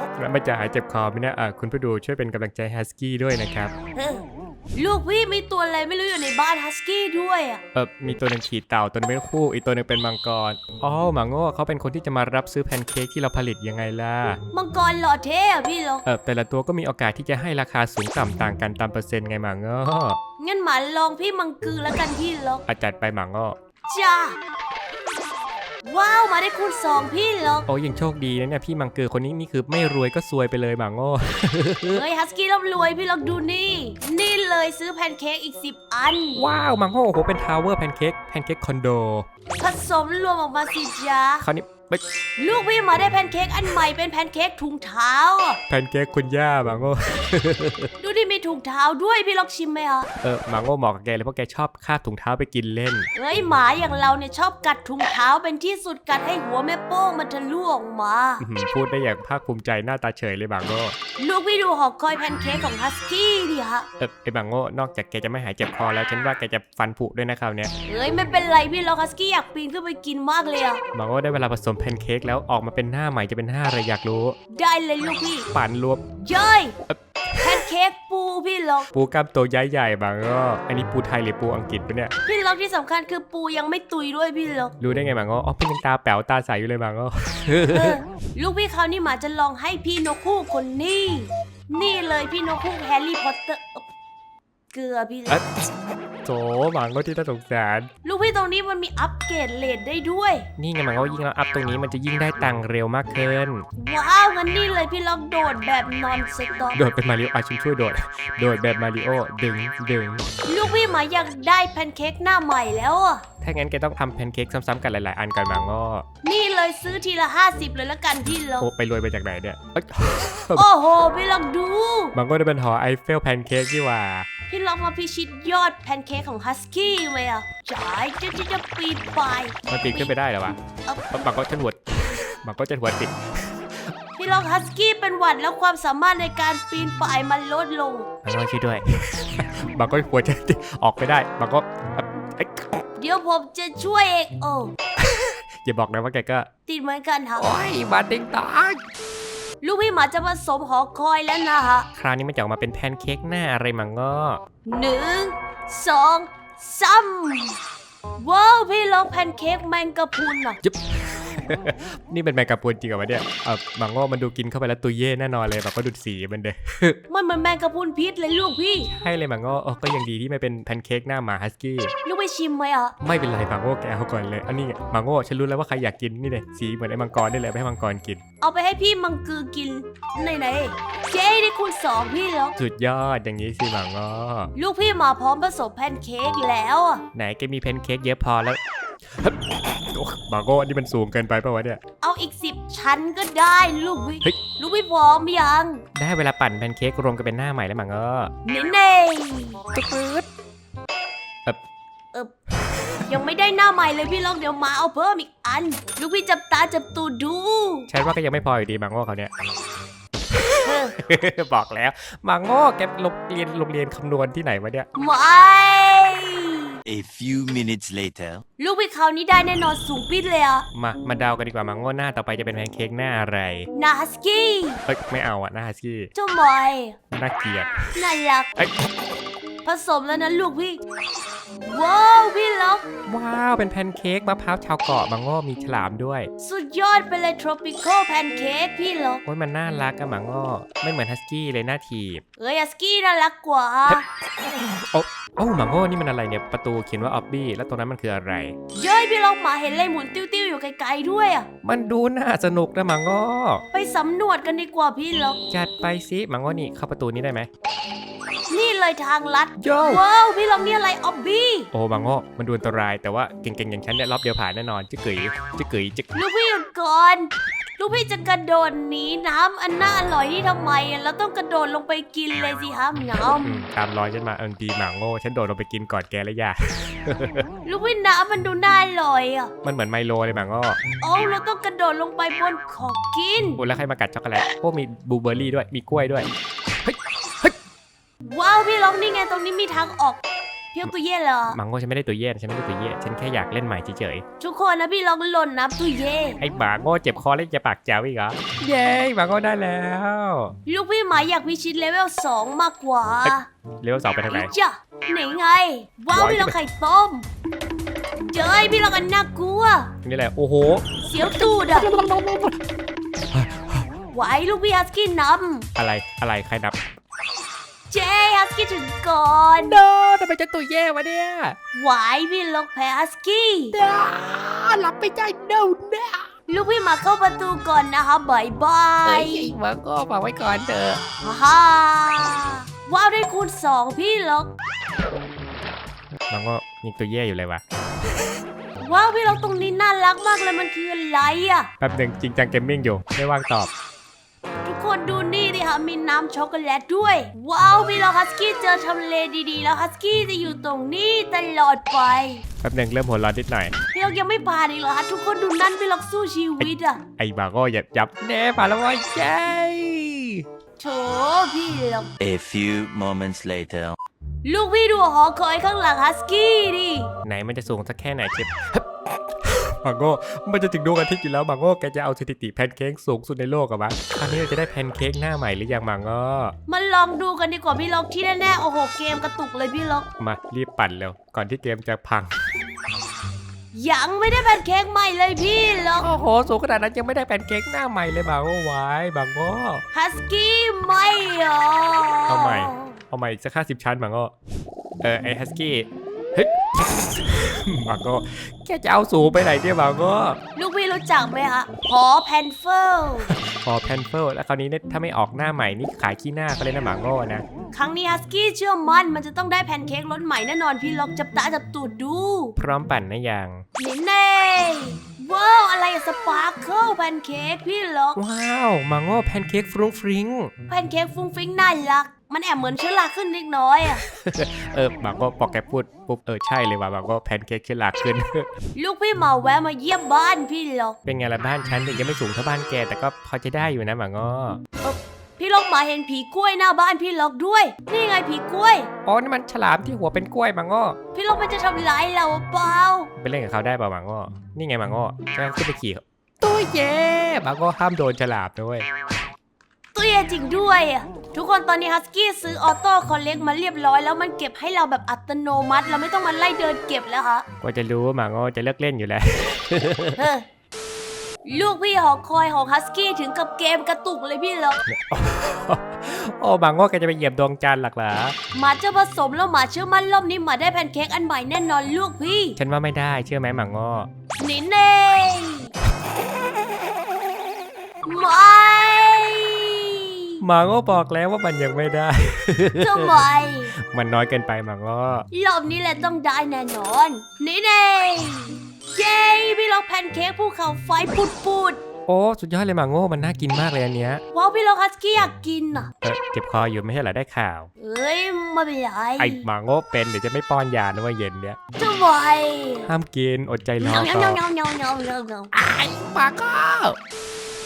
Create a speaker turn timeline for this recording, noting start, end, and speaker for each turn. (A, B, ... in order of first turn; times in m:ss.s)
0:00.2-0:03.7 A
0:03.9-0:07.6 B
0:07.7-0:14.4 A
0:14.5-0:16.0 B
0:16.0-0:20.2 A
0:20.4-0:22.6 B
0:22.7-0:23.6 A
0:23.9-0:24.4 B
0:25.8-0:27.7 B
0:27.7-0:32.0 A
0:31.9-0:36.4 B
0:36.4-0:39.2 A
0:39.6-0:41.4 B
0:41.4-0:42.0 A
0:42.4-0:45.6 B
0:45.7-0:47.9 A
0:48.0-0:50.1 B
0:50.2-0:53.1 A
0:53.1-0:58.4 B
0:58.4-1:01.0 A
1:01.2-1:03.9 B
1:04.0-1:07.7 A
1:07.8-1:10.8 B
1:10.9-1:14.4 A
1:14.5-1:15.5 B
1:15.5-1:16.0 A
1:16.2-1:16.7 B
1:16.9-1:17.7 A
1:17.4-1:18.9 B
1:18.9-1:22.1 A
1:22.2-1:24.7 B
1:24.8-1:28.0 A
1:27.7-1:33.8 B
1:34.7-1:35.4 B
1:35.3-1:35.7 A
1:36.2-1:37.9 A
1:38.0-1:40.4 B
1:40.6-1:43.7 A
1:43.8-1:46.8 B
1:46.7-1:50.3 A
1:50.5-1:53.2 B
1:53.4-1:56.0 A
1:56.2-1:58.7 B
1:58.6-2:00.7 A
2:00.5-2:02.1 B
2:02.1-2:04.3 A
2:04.5-2:10.1 B
2:09.7-2:10.6 A
2:10.8-2:11.1 B
2:11.1-2:13.9 A
2:14.2-2:18.1 B
2:18.2-2:22.8 A
2:23.0-2:24.7 B
2:25.0-2:26.5 A
2:26.7-2:27.5 B
2:27.4-2:28.8 A
2:29.6-2:31.9 B
2:31.9-2:34.4 A
2:34.6-2:37.6 B
2:38.2-2:40.6 B
2:40.6-2:47.0 A
2:47.1-2:48.9 B
2:48.9-2:51.9 A
2:52.0-2:52.9 B
2:53.0-2:58.2 A
2:58.4-3:02.6 B
3:02.6-3:04.5 A
3:04.6-3:07.0 B
3:07.1-3:08.6 A
3:09.2-3:11.8 A
3:12.0-3:15.8 B
3:15.9-3:18.3 A
3:18.4-3:19.6 B
3:19.7-3:20.3 A
3:22.6-3:23.0 A
3:23.0-3:27.9 B
3:27.9-3:29.3 A
3:30.3-3:34.9 A
3:30.6-3:30.9 B
3:35.0-3:36.6 B
3:36.8-3:38.4 C
3:38.6-3:40.6 B
3:40.7-3:43.7 A
3:43.7-3:44.8 B
3:44.9-3:46.1 A
3:46.1-3:47.0 B
3:47.1-3:48.0 A
3:47.9-3:48.5 B
3:49.6-3:50.8 B
3:51.6-3:52.8 B
3:53.1-3:56.3 A
3:56.4-3:59.2 B
3:59.2-4:02.2 A
4:02.4-4:04.0 B
4:03.9-4:08.5 A
4:08.8-4:11.5 B
4:11.6-4:13.6 A
4:13.7-4:15.4 B
4:15.5-4:17.5 A
4:18.5-4:21.7 B
4:19.6-4:20.0 A
4:21.7-4:26.1 A
4:26.1-4:33.5 B
4:33.4-4:37.5 A
4:37.6-4:39.5 B
4:39.6-4:40.8 A
4:41.0-4:43.6 B
4:43.6-4:46.3 A
4:46.8-4:47.5 A
4:48.2-4:50.2 B
4:50.7-4:51.6 B
4:51.5-4:54.2 A
4:54.4-4:56.4 B
4:56.4-5:00.5 A
5:00.6-5:03.4 B
5:03.2-5:04.5 A
5:04.3-5:07.3 B
5:06.1-5:06.5 A
5:08.2-5:09.9 B
5:10.0-5:10.8 A
5:11.0-5:11.9 B
5:11.8-5:12.6 A
5:13.3-5:13.9 A
5:14.1-5:15.7 B
5:15.8-5:16.8 A
5:17.9-5:19.8 B
5:19.7-5:21.6 A
5:21.7-5:23.7 B
5:23.7-5:26.3 A
5:26.5-5:29.5 B
5:29.0-5:31.0 A
5:31.2-5:34.5 B
5:36.3-5:37.6 A
5:38.8-5:41.7 B
5:41.8-5:43.7 A
5:44.6-5:52.4 B
5:52.6-5:53.7 A
5:53.9-5:57.0 B
5:56.6-6:00.4 A
6:00.8-6:02.1 B
6:02.2-6:04.0 C
6:04.4-6:07.1 B
6:07.2-6:16.5 A
6:16.7-6:20.1 B
6:20.2-6:22.3 A
6:23.7-6:26.1 B
6:26.0-6:29.8 A
6:29.9-6:33.0 B
6:32.3-6:34.3 A
6:35.0-6:40.4 A
6:40.6-6:43.3 B
6:43.2-6:47.4 A
6:47.7-6:52.5 B
6:52.6-6:53.6 A
6:53.8-6:58.2 B
6:58.2-7:00.5 A
7:00.7-7:04.0 B
7:04.0-7:08.5 A
7:08.7-7:11.0 B
7:11.0-7:14.6 A
7:14.8-7:18.9 B
7:19.0-7:21.0 A
7:21.1-7:23.1 B
7:23.2-7:28.8 A
7:29.9-7:37.4 B
7:37.6-7:40.2 A
7:40.2-7:40.4 B
7:41.4-7:44.8 B
7:44.8-7:48.4 A
7:48.5-7:52.6 B
7:52.6-7:54.1 A
7:54.4-7:55.7 B
7:58.0-8:00.1 B
8:00.4-8:03.2 A
8:02.8-8:03.7 B
8:03.8-8:05.3 A
8:05.3-8:11.8 B
8:12.1-8:14.2 A
8:14.3-8:15.9 B
8:16.0-8:17.7 A
8:17.8-8:19.4 B
8:19.2-8:21.6 A
8:21.8-8:22.9 B
8:22.8-8:24.4 A
8:23.8-8:25.5 B
8:25.5-8:27.0 A